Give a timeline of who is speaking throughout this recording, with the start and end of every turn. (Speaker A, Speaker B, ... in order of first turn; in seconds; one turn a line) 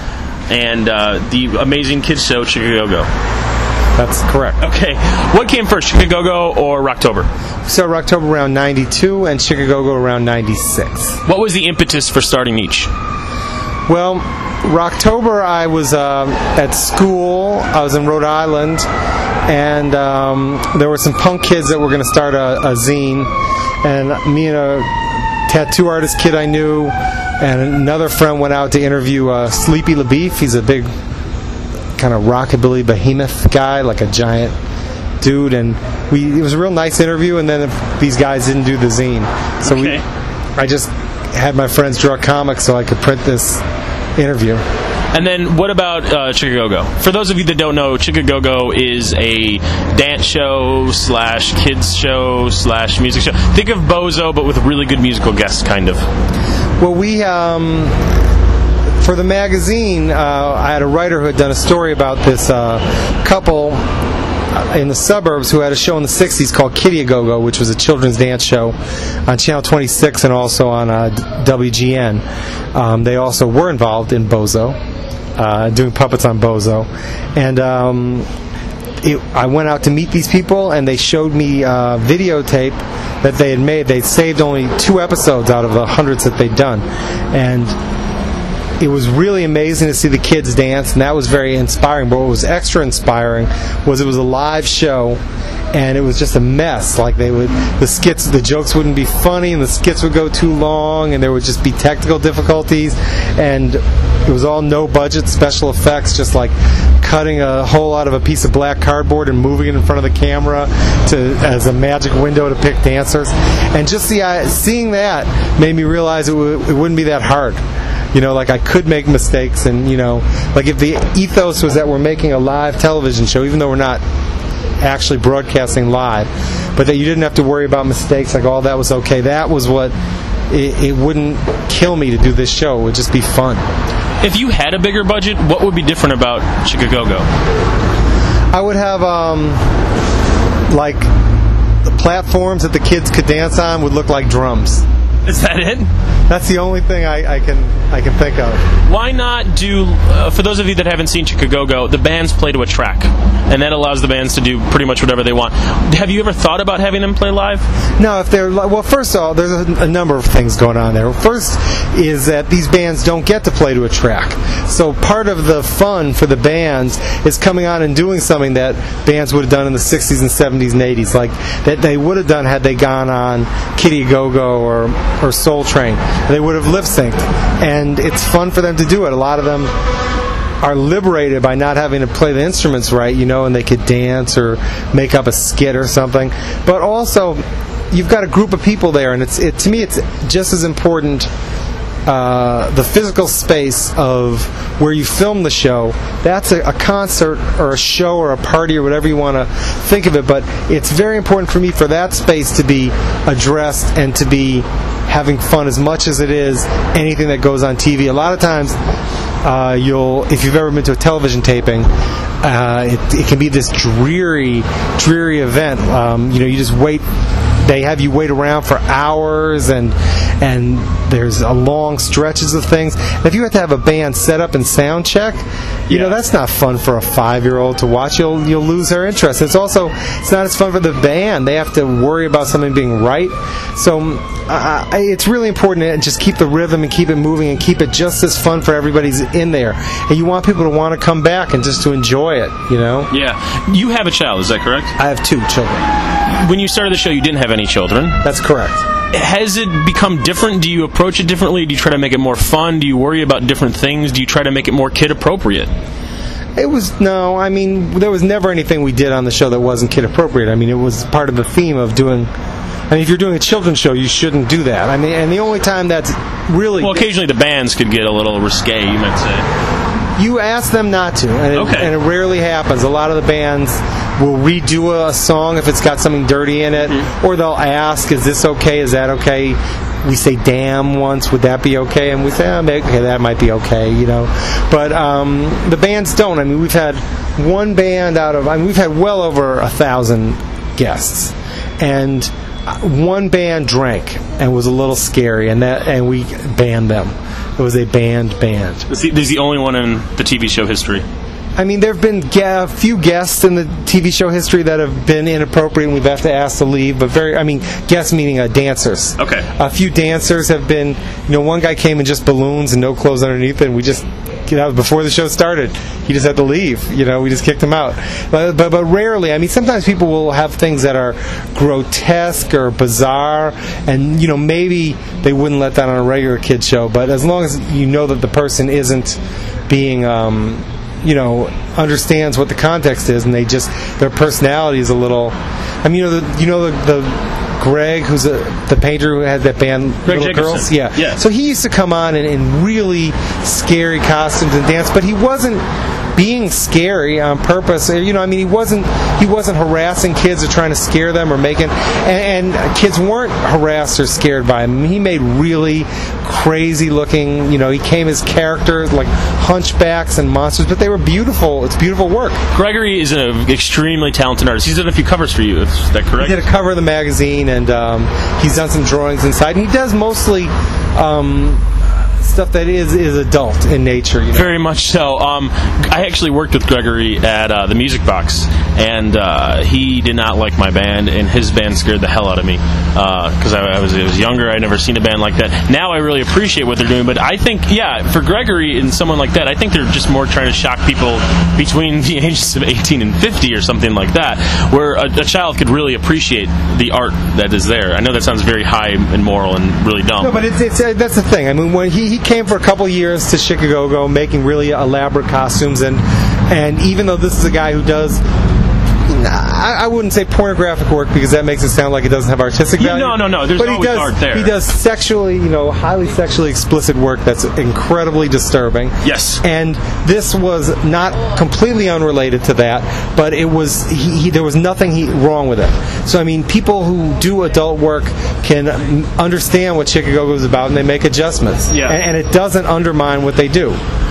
Speaker A: 0.5-3.1
Speaker B: 4.0-4.6
Speaker A: 4.6-7.3
Speaker B: 7.7-11.2
Speaker A: 11.2-12.9
Speaker B: 13.9-18.9
Speaker B: 19.5-23.3
Speaker B: 23.8-24.9
Speaker B: 25.5-30.9
Speaker B: 32.0-34.5
Speaker B: 35.2-40.0
Speaker A: 39.6-40.0
Speaker B: 40.6-43.6
Speaker B: 44.2-44.6
Speaker A: 45.1-56.0
Speaker B: 56.8-58.0
Speaker B: 59.0-63.8
Speaker B: 64.5-68.8
Speaker B: 69.3-72.2
Speaker B: 72.7-74.8
Speaker B: 75.4-78.3
Speaker B: 79.0-87.8
Speaker B: 88.8-95.2
Speaker B: 95.7-117.6
Speaker B: 118.1-124.0
Speaker B: 124.8-129.9
Speaker B: 130.5-133.6
Speaker A: 134.2-137.3
Speaker B: 138.5-139.6
Speaker B: 140.7-141.1
Speaker B: 141.8-144.8
Speaker A: 145.2-145.9
Speaker B: 146.3-148.6
Speaker A: 148.9-157.7
Speaker B: 158.0-179.7
Speaker B: 180.6-191.3
Speaker B: 192.1-208.8
Speaker B: 209.4-211.9
Speaker B: 212.4-217.0
Speaker B: 217.6-243.1
Speaker A: 225.9-226.2
Speaker A: 243.1-244.9
Speaker B: 245.0-245.9
Speaker A: 246.2-248.2
Speaker B: 248.2-248.8
Speaker A: 249.1-255.7
Speaker B: 256.6-262.3
Speaker B: 262.9-267.1
Speaker A: 266.8-269.5
Speaker B: 270.2-298.9
Speaker A: 271.5-271.9
Speaker A: 298.9-301.1
Speaker B: 301.6-345.6
Speaker A: 309.2-309.5
Speaker A: 340.1-341.2
Speaker B: 346.1-362.4
Speaker A: 362.5-366.4
Speaker B: 366.2-371.7
Speaker B: 372.2-374.6
Speaker A: 374.3-400.4
Speaker B: 400.2-408.2
Speaker B: 409.1-433.8
Speaker A: 412.8-414.6
Speaker A: 419.0-419.4
Speaker A: 431.7-432.0